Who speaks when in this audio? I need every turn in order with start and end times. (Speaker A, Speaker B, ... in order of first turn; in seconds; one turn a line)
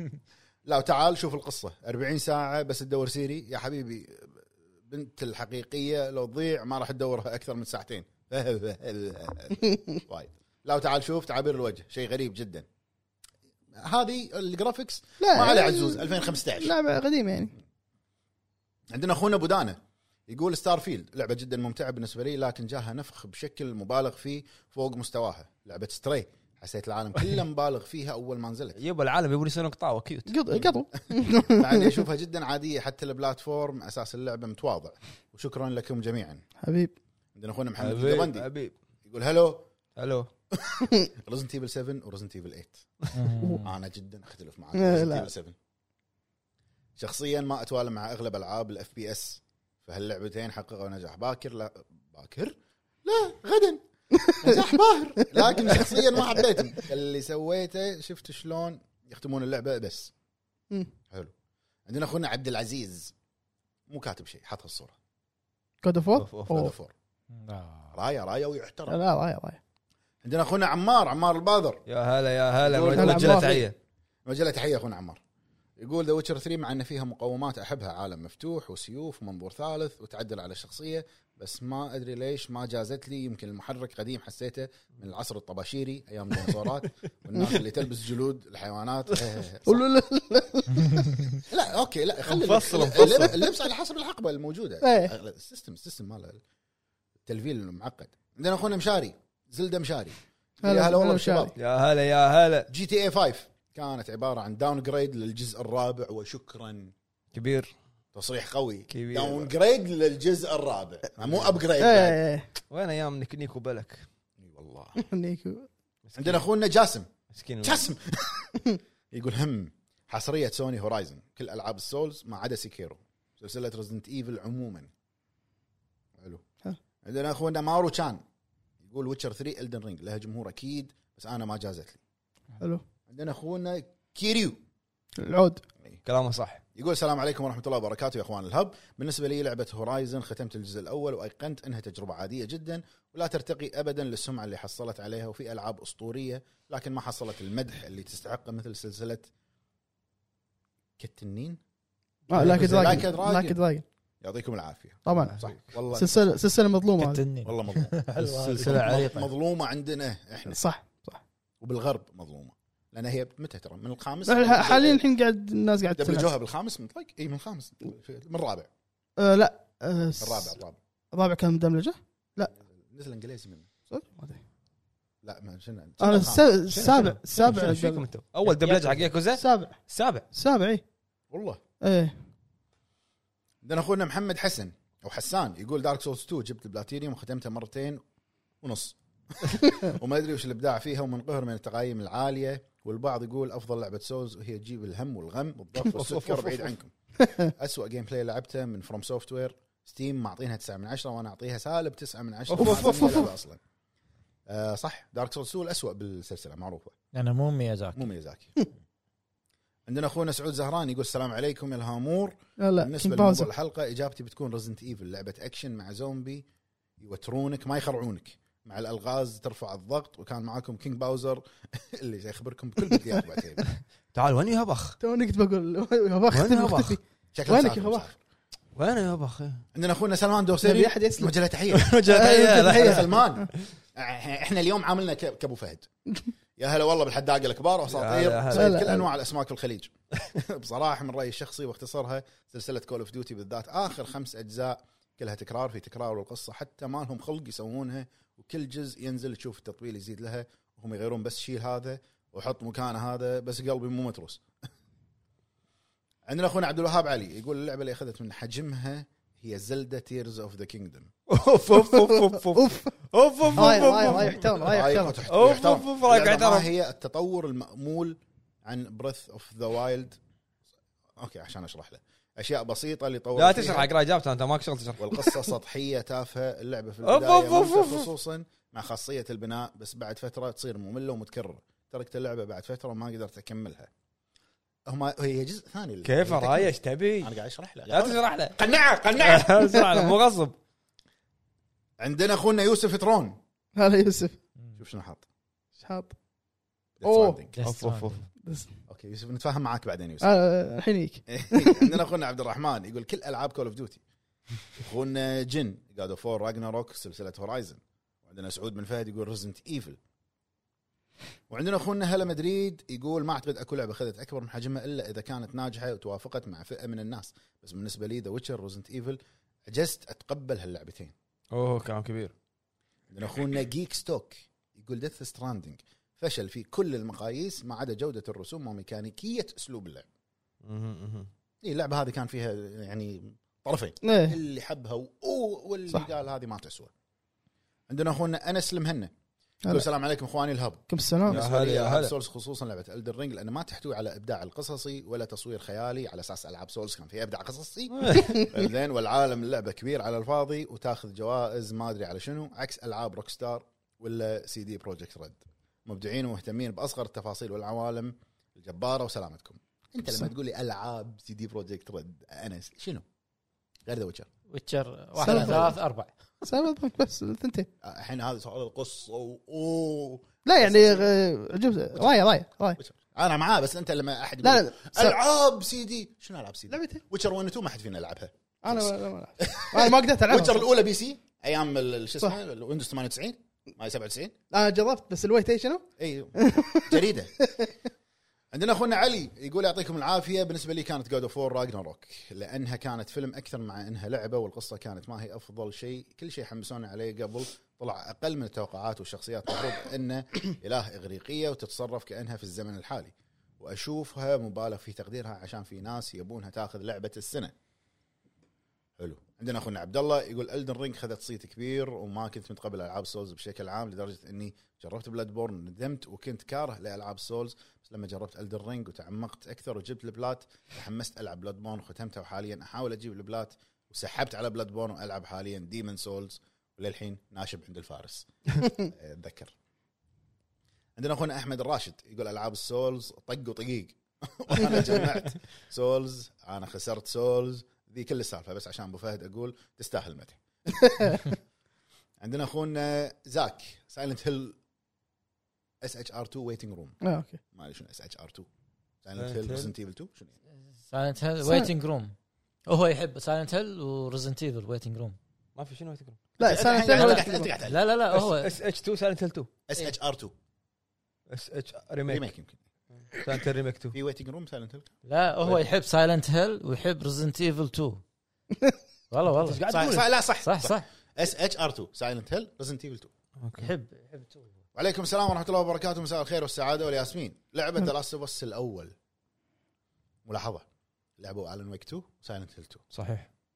Speaker A: 0.7-12.7
Speaker A: 13.7-16.7
Speaker B: 15.2-17.5
Speaker A: 18.9-28.8
Speaker C: 28.8-30.7
Speaker B: 30.3-32.0
Speaker A: 31.5-36.4
Speaker B: 36.6-36.9
Speaker A: 37.4-38.5
Speaker C: 37.8-38.7
Speaker A: 39.1-39.7
Speaker C: 40.0-40.3
Speaker A: 40.5-42.9
Speaker D: 43.1-43.7
Speaker B: 43.4-43.6
Speaker A: 43.6-45.6
Speaker B: 44.8-45.3
Speaker A: 47.0-53.8
Speaker B: 54.1-56.5
Speaker A: 54.4-60.1
Speaker A: 61.9-63.1
Speaker A: 63.9-65.0
Speaker B: 65.8-66.8
Speaker C: 66.2-66.7
Speaker A: 66.5-66.9
Speaker D: 67.3-67.9
Speaker A: 67.9-69.0
Speaker B: 68.9-69.6
Speaker A: 70.2-71.8
Speaker C: 71.9-73.8
Speaker A: 72.6-73.6
Speaker B: 73.0-73.6
Speaker A: 74.3-75.2
Speaker A: 75.8-89.8
Speaker B: 89.7-91.4
Speaker A: 91.5-96.4
Speaker C: 92.3-93.4
Speaker B: 94.8-95.1
Speaker A: 97.3-101.5
Speaker B: 100.6-101.5
Speaker C: 101.6-102.7
Speaker A: 102.7-106.9
Speaker C: 107.3-107.7
Speaker A: 108.1-112.2
Speaker C: 108.9-109.5
Speaker B: 111.8-112.5
Speaker C: 112.7-114.1
Speaker A: 114.4-115.0
Speaker B: 115.0-115.7
Speaker C: 116.1-116.4
Speaker A: 116.2-117.1
Speaker C: 117.3-117.9
Speaker A: 117.6-124.9
Speaker A: 127.0-128.2
Speaker A: 128.8-132.0
Speaker A: 133.1-134.6
Speaker B: 135.2-135.6
Speaker C: 136.1-136.6
Speaker A: 136.8-149.3
Speaker A: 151.0-151.6
Speaker B: 152.3-153.8
Speaker C: 152.3-153.0
Speaker A: 152.4-153.6
Speaker A: 154.2-156.3
Speaker B: 155.1-155.4
Speaker C: 155.2-155.6
Speaker B: 155.9-157.2
Speaker D: 157.0-159.3
Speaker A: 157.4-160.6
Speaker C: 158.2-159.2
Speaker B: 160.5-161.2
Speaker A: 161.6-165.0
Speaker B: 164.3-166.3
Speaker A: 166.0-168.7
Speaker B: 169.2-170.6
Speaker A: 170.2-170.8
Speaker B: 171.1-172.5
Speaker A: 172.5-173.7
Speaker B: 173.9-174.4
Speaker A: 175.2-177.0
Speaker B: 176.0-178.1
Speaker C: 176.7-180.3
Speaker B: 178.6-179.8
Speaker B: 180.3-180.8
Speaker A: 181.3-181.6
Speaker B: 181.8-182.2
Speaker A: 183.6-188.0
Speaker A: 188.6-196.9
Speaker C: 195.8-196.7
Speaker B: 197.2-197.5
Speaker A: 197.6-203.6
Speaker C: 202.5-203.3
Speaker B: 202.6-203.3
Speaker A: 204.5-206.9
Speaker D: 207.1-208.0
Speaker A: 207.9-208.6
Speaker A: 209.9-216.4
Speaker B: 212.6-213.5
Speaker A: 217.0-223.6
Speaker C: 224.1-225.0
Speaker B: 225.0-228.1
Speaker C: 226.3-227.0
Speaker A: 227.3-228.2
Speaker C: 228.8-229.7
Speaker A: 229.8-231.9
Speaker B: 230.6-231.3
Speaker C: 231.7-233.1
Speaker B: 232.1-233.5
Speaker A: 232.6-235.9
Speaker A: 236.6-254.4
Speaker C: 237.9-238.8
Speaker B: 238.5-239.1
Speaker A: 256.3-261.1
Speaker C: 261.3-264.7
Speaker B: 261.7-262.9
Speaker B: 263.6-265.2
Speaker A: 264.6-270.2
Speaker C: 265.3-266.7
Speaker A: 271.2-273.9
Speaker C: 273.4-275.5
Speaker A: 275.0-283.9
Speaker C: 277.0-278.1
Speaker A: 284.9-289.7
Speaker C: 286.0-287.3
Speaker C: 287.9-288.6
Speaker C: 289.2-290.6
Speaker A: 292.0-293.4
Speaker B: 293.8-294.4
Speaker A: 294.8-295.2
Speaker B: 295.8-296.1
Speaker A: 297.0-297.6
Speaker B: 297.0-297.4
Speaker D: 297.5-298.2
Speaker C: 297.6-298.3
Speaker B: 298.4-298.7
Speaker A: 298.9-300.3
Speaker B: 300.2-301.9
Speaker A: 301.3-304.0
Speaker A: 304.7-310.0
Speaker A: 311.5-321.1
Speaker C: 321.5-322.3
Speaker A: 323.1-330.1
Speaker C: 330.6-331.3
Speaker A: 331.6-336.9
Speaker B: 334.0-334.4
Speaker A: 337.9-339.1
Speaker A: 339.7-363.1
Speaker B: 340.9-341.4
Speaker C: 341.3-342.1
Speaker C: 347.9-348.4
Speaker A: 363.9-364.3
Speaker D: 364.5-366.1
Speaker A: 365.2-365.8
Speaker B: 365.2-365.8
Speaker B: 366.4-367.7
Speaker A: 367.8-371.1
Speaker B: 370.4-372.8
Speaker A: 372.8-384.4
Speaker B: 374.4-375.2
Speaker B: 376.7-377.0
Speaker B: 378.6-380.7
Speaker B: 384.5-387.7
Speaker A: 386.0-387.3
Speaker A: 388.5-407.5
Speaker A: 409.0-429.6
Speaker A: 431.0-440.4
Speaker B: 440.9-441.2
Speaker A: 441.0-441.3
Speaker A: 442.2-444.6
Speaker A: 445.8-447.0
Speaker B: 447.0-447.4
Speaker A: 447.5-448.5
Speaker A: 449.0-450.3
Speaker C: 449.2-449.7
Speaker D: 450.9-452.1
Speaker B: 451.4-451.7
Speaker D: 452.7-455.2
Speaker C: 455.6-456.2
Speaker B: 456.4-457.5
Speaker A: 456.4-457.9
Speaker D: 456.9-458.5
Speaker C: 458.1-459.5
Speaker A: 459.7-460.3
Speaker C: 461.3-462.3
Speaker A: 462.1-462.6
Speaker C: 463.1-463.9
Speaker A: 463.9-464.9
Speaker D: 465.1-468.0
Speaker D: 469.1-470.9
Speaker C: 469.4-470.1
Speaker A: 469.8-473.1
Speaker C: 473.4-473.7
Speaker D: 473.6-474.5
Speaker A: 474.8-478.9
Speaker A: 480.2-480.7
Speaker A: 481.2-482.9
Speaker C: 482.9-483.3